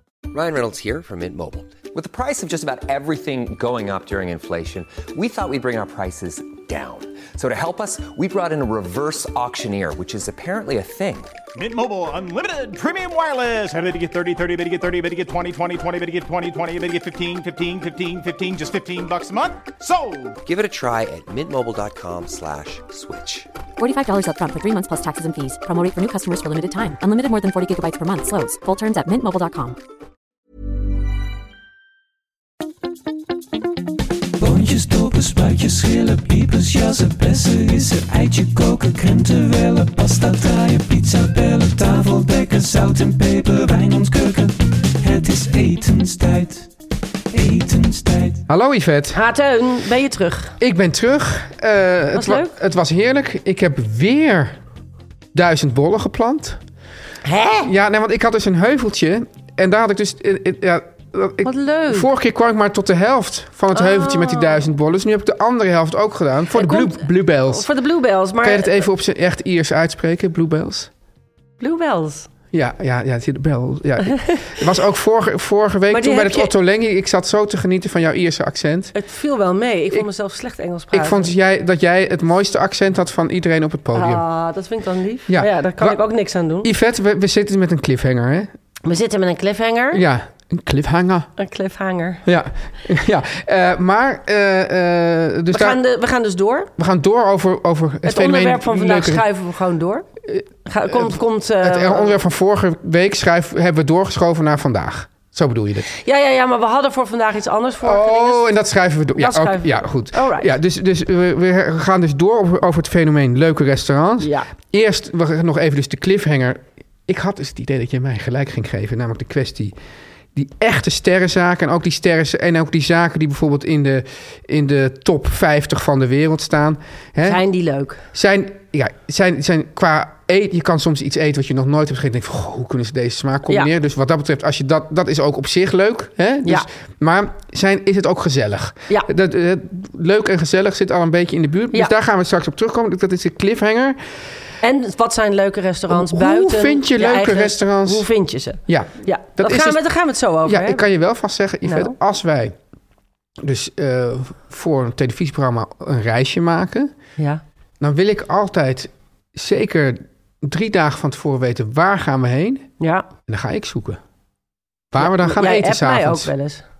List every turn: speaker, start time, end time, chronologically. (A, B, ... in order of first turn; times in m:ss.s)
0:00.3-0:11.3 A
0:11.6-0:20.4 B
0:20.4-0:23.5 A
0:23.8-0:29.8 C
0:34.4-0:46.7 D
0:47.3-0:48.4 D
0:48.5-0:49.2 E
0:49.1-0:50.6 F
0:50.6-0:54.6 E
0:52.1-0:52.5 F
0:55.3-0:56.6 E
0:57.2-0:57.7 F
0:57.6-1:07.7 E
1:01.4-1:02.1 F
1:03.7-1:04.7 F
1:06.5-1:08.9 F
1:08.4-1:10.9 E
1:11.6-1:12.3 F
1:12.5-1:19.0 E
1:14.0-1:14.6 F
1:15.9-1:16.5 F
1:18.9-1:21.3 F
1:20.9-1:24.2 E
1:23.9-1:26.7 F
1:25.3-1:26.0 E
1:26.6-1:28.5 E
1:28.8-1:30.0 F
1:29.9-1:31.3 E
1:31.4-1:32.2 F
1:32.2-1:35.8 E
1:35.5-1:36.7 F
1:36.8-1:39.3 E
1:38.0-1:40.1 F
1:40.3-1:45.9 E
1:40.6-1:42.2 F
1:45.9-1:48.5 F
1:47.8-1:59.8 E
1:49.2-1:50.5 F
1:54.2-1:54.5 F
2:00.3-2:07.4 E
2:07.2-2:08.0 F
2:08.1-2:24.0 E
2:24.6-2:30.8 F
2:25.9-2:28.1 E
2:28.7-2:29.8 E
2:30.4-2:32.6 E
2:31.6-2:32.0 F
2:33.4-2:36.9 E
2:37.8-2:42.7 E
2:42.8-2:43.1 F
2:43.3-2:44.0 E
2:44.9-2:46.3 E
2:45.0-2:46.6 F